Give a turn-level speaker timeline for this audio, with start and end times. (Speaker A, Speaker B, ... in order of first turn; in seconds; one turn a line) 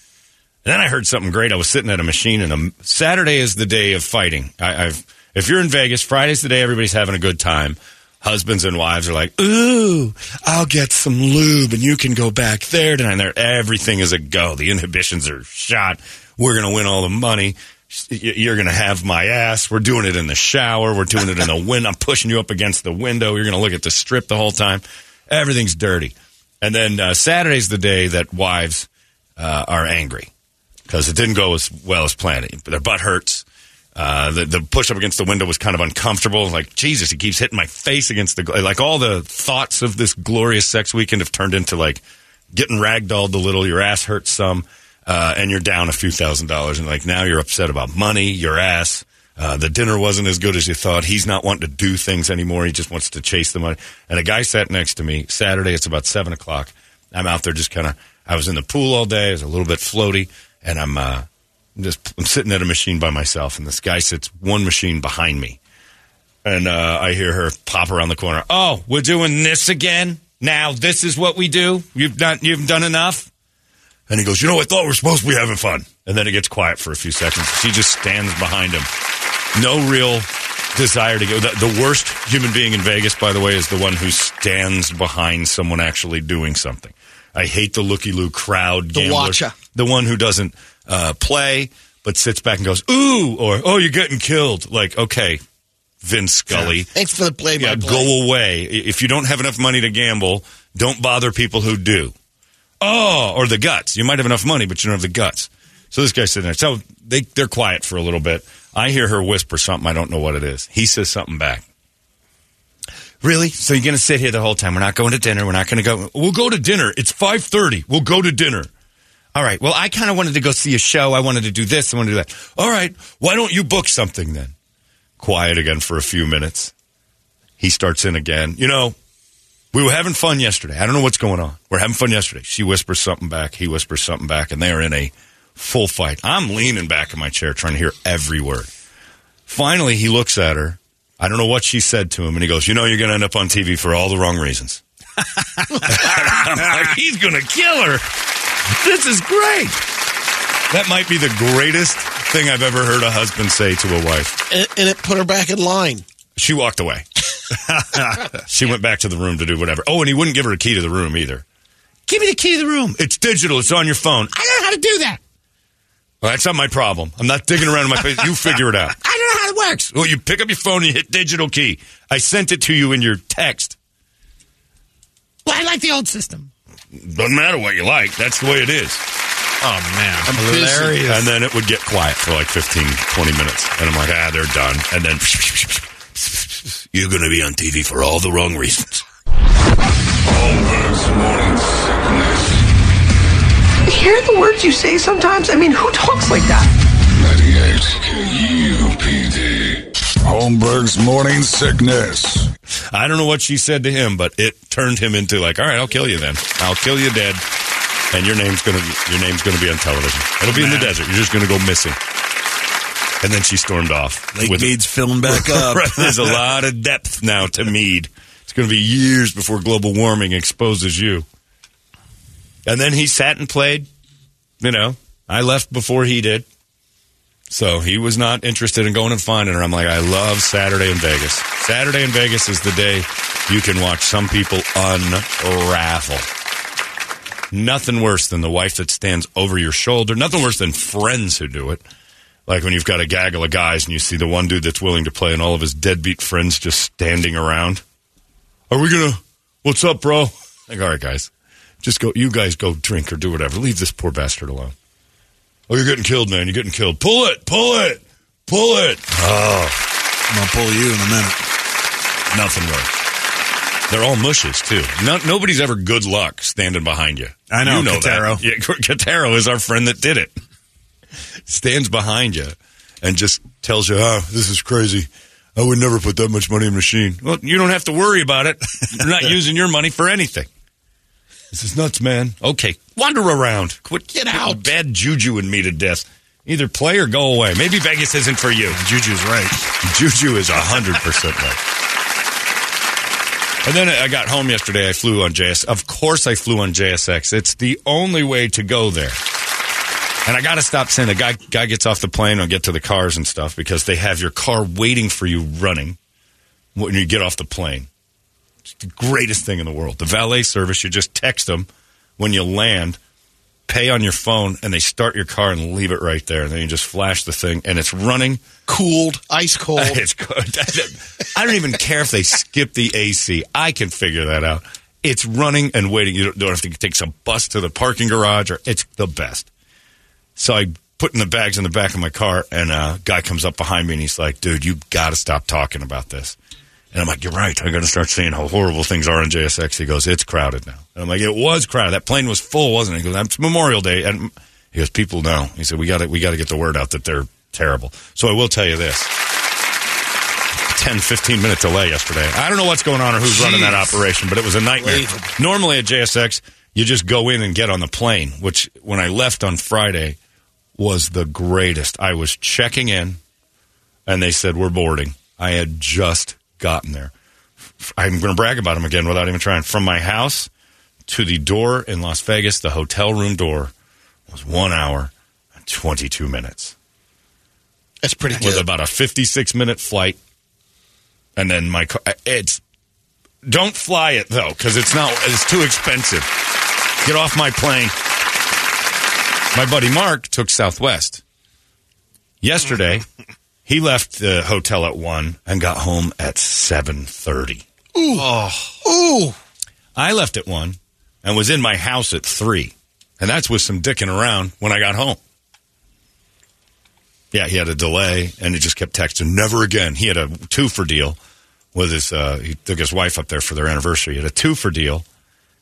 Speaker A: 0.6-30.3
Speaker A: 30.9-33.4
Speaker A: 34.0-42.0
Speaker A: 42.5-65.6
Speaker A: 66.4-73.3
Speaker A: 74.1-78.9
Speaker A: 79.5-95.4
Speaker B: 88.9-89.5
Speaker A: 96.0-96.9
Speaker B: 96.9-98.1
Speaker A: 97.6-102.1
Speaker A: 102.8-111.6
Speaker A: 113.2-118.7
Speaker A: 119.3-124.5
Speaker A: 125.2-126.7
Speaker A: 127.6-128.9
Speaker A: 129.7-138.7
Speaker A: 139.5-144.8
Speaker A: 145.8-148.0
Speaker A: 148.5-149.8
Speaker A: 150.7-154.4
Speaker B: 154.5-156.0
Speaker A: 156.4-157.4
Speaker C: 157.7-158.3
Speaker A: 158.3-161.4
Speaker A: 162.1-165.2
Speaker A: 166.2-173.8
Speaker A: 175.4-179.0
Speaker C: 179.6-181.2
Speaker A: 180.3-189.0
Speaker D: 190.2-192.7
Speaker E: 193.8-196.7
Speaker D: 196.9-202.5
Speaker A: 202.9-207.4
Speaker A: 208.1-212.0
Speaker C: 210.5-210.9
Speaker A: 213.2-221.2
Speaker C: 214.3-216.4
Speaker A: 222.7-223.9
Speaker A: 224.6-226.4
Speaker A: 227.5-236.3
Speaker A: 237.5-241.8
Speaker A: 242.5-247.8
Speaker A: 248.7-251.3
Speaker A: 251.8-254.7
Speaker A: 255.7-259.8
Speaker C: 260.3-261.4
Speaker A: 262.3-262.9
Speaker A: 263.9-270.3
Speaker C: 267.5-268.4
Speaker A: 271.5-280.5
Speaker A: 281.5-288.8
Speaker B: 284.1-284.7
Speaker C: 288.7-289.6
Speaker A: 289.7-291.6
Speaker A: 293.6-299.2
Speaker A: 300.2-306.0
Speaker A: 306.7-307.9
Speaker A: 308.7-313.0
Speaker A: 313.7-318.4
Speaker B: 318.7-320.0
Speaker A: 319.8-329.5
Speaker A: 330.4-336.4
Speaker A: 336.9-349.1
Speaker A: 350.7-360.2
Speaker B: 354.8-355.3
Speaker A: 360.8-363.2
Speaker A: 364.1-367.1
Speaker A: 367.8-370.5
Speaker A: 371.1-373.7
Speaker A: 374.3-376.7
Speaker B: 378.0-378.7
Speaker A: 378.3-380.2
Speaker A: 381.4-382.6
Speaker A: 383.4-386.3
Speaker A: 387.0-387.9
Speaker A: 389.5-391.2
Speaker A: 392.4-393.0
Speaker A: 393.6-397.6
Speaker B: 397.9-398.3
Speaker C: 398.2-398.7
Speaker B: 398.8-399.4
Speaker A: 399.9-405.2
Speaker A: 407.3-411.2
Speaker A: 411.7-415.0